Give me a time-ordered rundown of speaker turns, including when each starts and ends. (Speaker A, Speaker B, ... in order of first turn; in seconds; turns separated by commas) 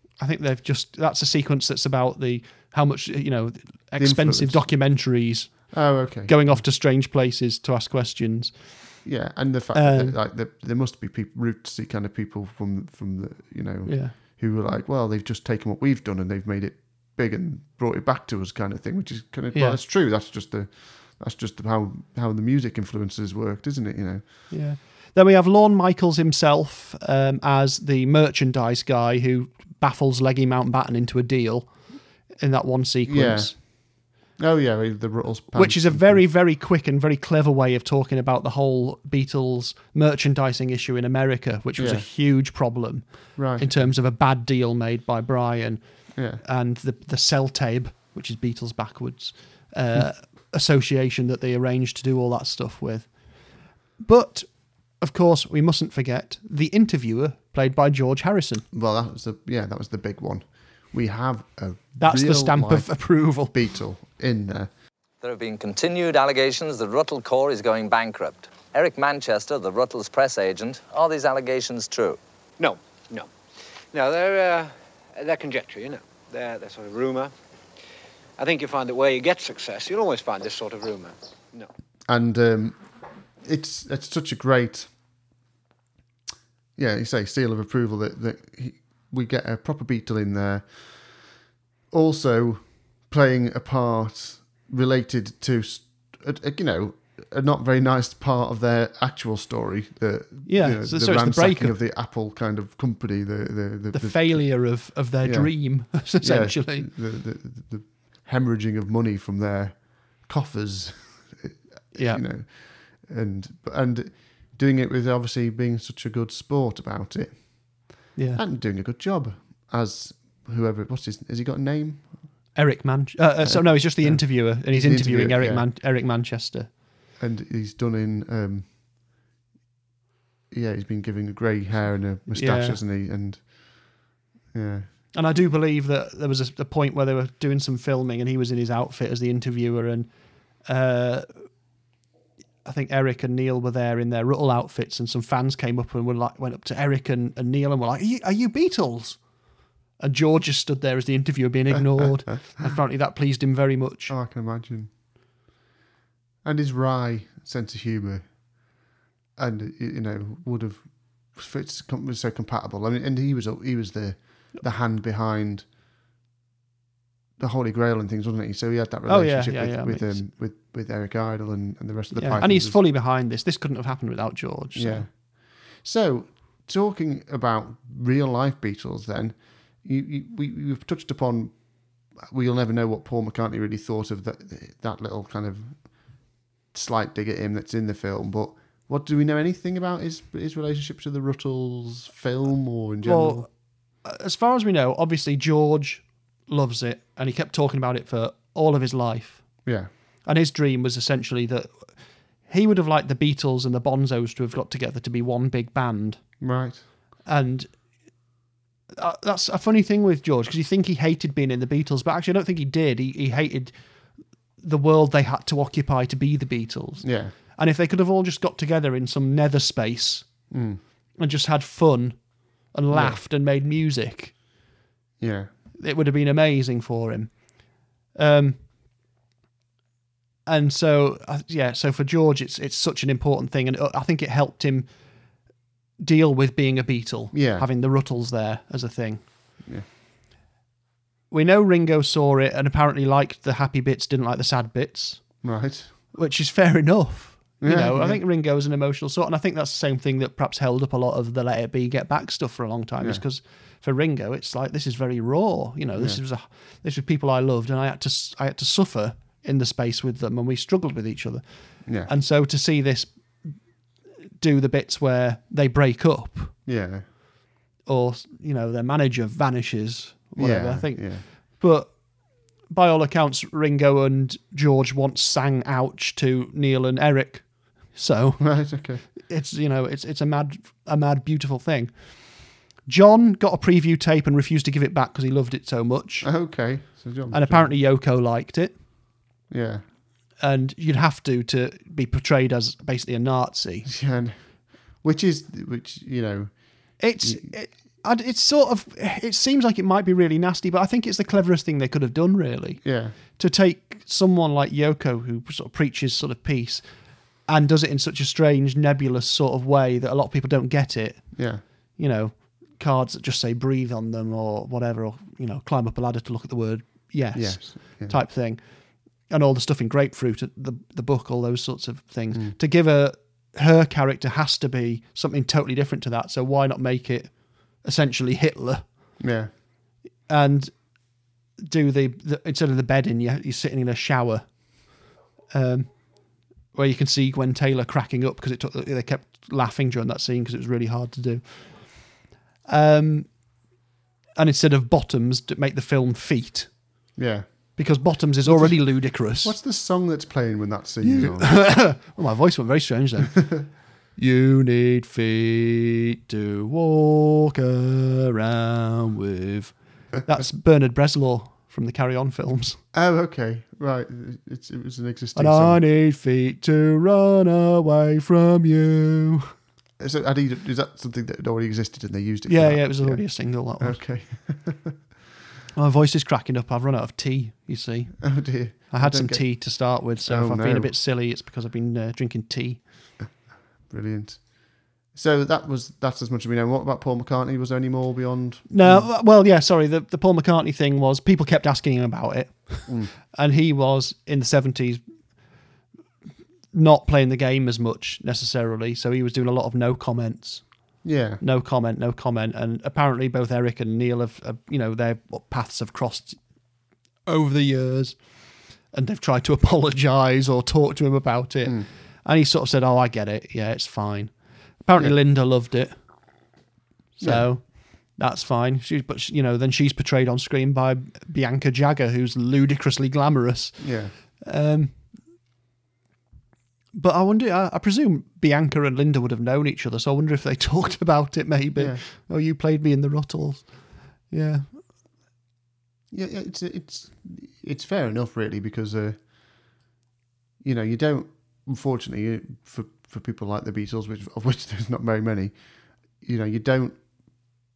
Speaker A: 0.2-9.0, Speaker B: 4.0-5.1, Speaker B: 5.7-6.6, Speaker B: 9.0-24.3, Speaker A: 9.7-10.2, Speaker A: 13.8-14.2, Speaker A: 19.5-19.8, Speaker A: 24.5-33.5, Speaker B: 33.0-36.2, Speaker A: 35.5-58.7, Speaker B: 41.8-42.1, Speaker B: 43.4-43.9, Speaker B: 46.1-46.4, Speaker B: 58.7-64.7, Speaker A: 62.0-63.5, Speaker C: 65.2-72.2, Speaker D: 72.6-73.4, Speaker D: 73.9-77.3, Speaker D: 78.4-81.7, Speaker B: 82.0-85.0, Speaker B: 86.8-122.6, Speaker A: 100.5-101.8, Speaker A: 103.9-106.9, Speaker A: 111.9-112.2, Speaker A: 118.2-118.4, Speaker A: 122.5-126.7, Speaker B: 123.4-125.7, Speaker B: 127.2-128.8, Speaker B: 130.5-134.9, Speaker A: 132.3-132.8, Speaker A: 135.1-141.5, Speaker A: 142.6-149.4, Speaker A: 150.0-154.1, Speaker B: 151.9-152.7, Speaker B: 154.1-154.9, Speaker B: 156.4-165.7, Speaker B: 167.4-172.8, Speaker A: 169.1-170.2, Speaker A: 172.1-175.1, Speaker B: 174.7-193.5, Speaker A: 193.0-206.5, Speaker B: 199.6-199.9, Speaker B: 206.4-206.8, Speaker A: 207.2-207.8, Speaker A: 209.0-220.6, Speaker B: 217.0-217.3, Speaker B: 220.5-220.8, Speaker A: 221.1-224.6, Speaker B: 222.9-223.2, Speaker B: 225.2-225.5, Speaker A: 225.7-228.6, Speaker A: 230.4-235.4, Speaker A: 236.0-239.6, Speaker B: 237.3-237.7, Speaker A: 241.3-263.8, Speaker B: 245.4-246.0, Speaker B: 247.6-248.2, Speaker B: 255.9-256.2, Speaker B: 261.8-262.1, Speaker A: 264.4-266.6, Speaker B: 266.6-267.1, Speaker A: 267.8-286.7, Speaker B: 270.4-271.2, Speaker B: 278.4-279.0, Speaker B: 286.2-287.7, Speaker A: 287.3-288.8, Speaker B: 289.5-289.9, Speaker A: 290.4-293.9, Speaker B: 293.9-297.6, Speaker A: 297.0-329.2, Speaker B: 302.8-303.2, Speaker B: 311.3-311.6, Speaker B: 317.3-318.2, Speaker B: 329.2-329.5, Speaker A: 330.3-343.6, Speaker A: 344.4-347.1, Speaker B: 347.1-352.0, Speaker A: 347.8-349.6, Speaker A: 351.0-362.8, Speaker B: 362.9-365.8, Speaker A: 365.4-369.5, Speaker B: 370.0-375.0, Speaker A: 372.5-374.0, Speaker A: 375.7-382.9, Speaker B: 378.2-380.9, Speaker B: 383.9-389.1, Speaker A: 388.7-395.6, Speaker B: 392.9-393.1, Speaker A: 396.7-406.7, Speaker B: 401.0-401.4, Speaker A: 407.2-416.0, Speaker B: 411.6-411.9, Speaker B: 417.2-417.6, Speaker A: 417.2-425.1, Speaker B: 423.8-424.1, Speaker A: 426.9-434.8, Speaker B: 431.8-432.0, Speaker B: 436.1-439.8, Speaker B: 440.6-447.6